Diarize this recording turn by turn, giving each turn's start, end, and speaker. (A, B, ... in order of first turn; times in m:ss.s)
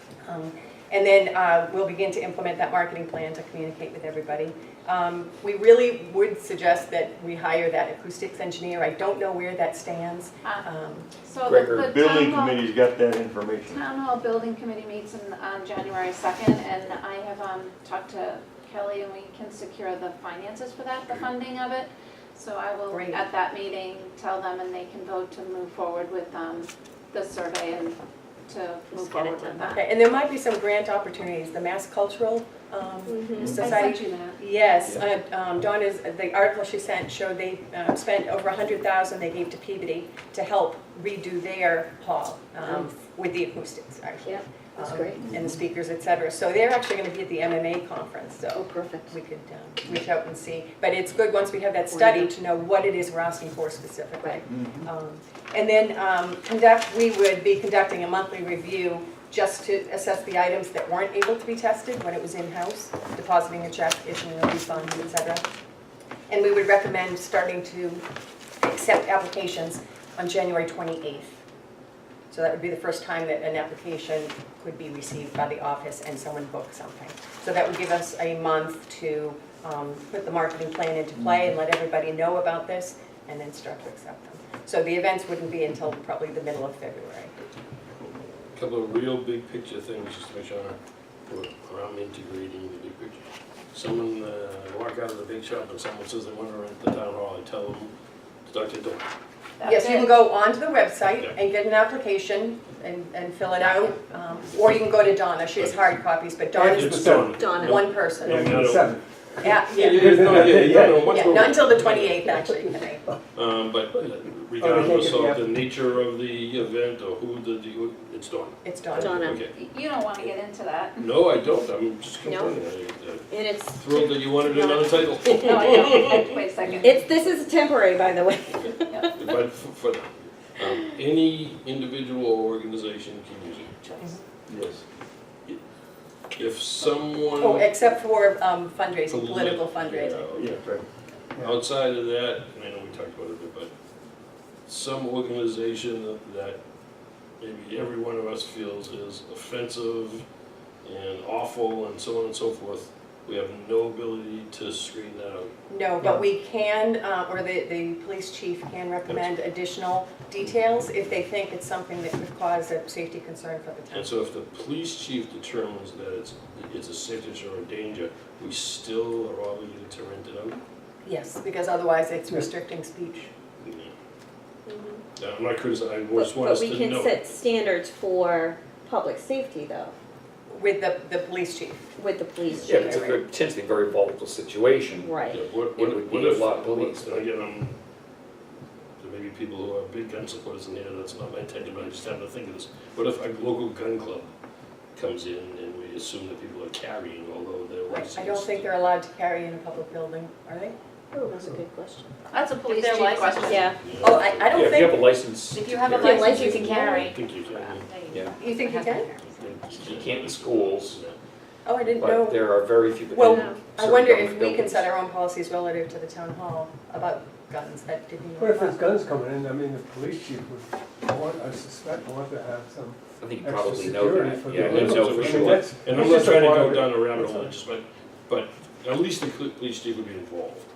0:00.2-0:11.1 A
0:11.2-0:12.7 B
0:11.4-0:11.9 C
0:11.8-0:13.8 D
0:13.7-0:28.0 B
0:22.9-0:23.2 A
0:28.5-0:29.8 B
0:28.9-0:29.8 E
0:29.8-1:05.4 A
0:33.1-0:33.6 E
0:33.4-0:33.7 C
0:33.6-0:34.9 B
0:44.2-0:45.2 E
0:48.5-0:49.2 E
0:51.9-0:52.3 E
0:54.5-0:54.8 D
1:06.3-1:08.1 A
1:08.6-1:11.4 A
1:12.3-1:27.3 A
1:28.6-1:37.9 F
1:38.5-1:39.1 F
1:39.6-1:40.2 B
1:39.6-1:48.6 A
1:45.6-1:46.0 F
1:46.5-1:47.5 G
1:46.6-1:48.9 F
1:47.4-1:47.8 E
1:48.1-1:51.5 G
1:49.4-1:53.0 A
1:49.7-1:52.2 F
1:52.5-1:53.1 G
1:53.3-1:59.5 F
1:54.6-1:55.5 G
1:58.6-1:59.4 A
1:59.0-1:59.4 E
1:59.5-2:01.1 B
2:01.0-2:06.4 F
2:02.2-2:02.6 E
2:03.3-2:05.7 E
2:05.4-2:07.4 B
2:06.8-2:09.2 E
2:08.5-2:14.0 F
2:08.9-2:09.2 B
2:14.5-2:14.8 D
2:16.4-2:17.7 F
2:17.4-2:20.4 A
2:19.1-2:20.6 F
2:20.4-2:20.8 D
2:21.4-2:23.7 F
2:24.7-2:26.6 F
2:27.4-2:30.2 F
2:30.8-2:35.5 F
2:35.7-2:44.1 A
2:39.1-2:39.3 F
2:43.9-2:50.6 F
2:51.0-2:53.3 A
2:53.6-2:53.9 F
2:54.7-2:55.0 E
2:55.2-2:57.4 F
2:56.1-2:59.9 E
3:00.5-3:01.9 A
3:02.0-3:03.0 E
3:02.6-3:05.2 C
3:02.6-3:03.2 A
3:05.0-3:05.4 E
3:05.3-3:07.7 F
3:05.7-3:07.3 C
3:09.0-3:14.3 F
3:15.0-3:18.7 F
3:17.9-3:20.8 A
3:21.1-3:22.1 E
3:21.3-3:21.6 G
3:22.3-3:23.8 B
3:22.7-3:25.1 A
3:23.4-3:23.8 E
3:23.7-3:24.8 F
3:24.5-3:26.4 C
3:25.5-3:29.4 B
3:26.0-3:27.1 E
3:26.4-3:27.9 F
3:28.4-3:29.1 A
3:29.3-3:31.2 F
3:29.7-3:31.0 C
3:31.6-3:32.5 A
3:31.9-3:34.9 C
3:33.1-3:38.8 A
3:38.4-3:47.5 G
3:43.2-3:45.7 C
3:44.6-3:50.7 F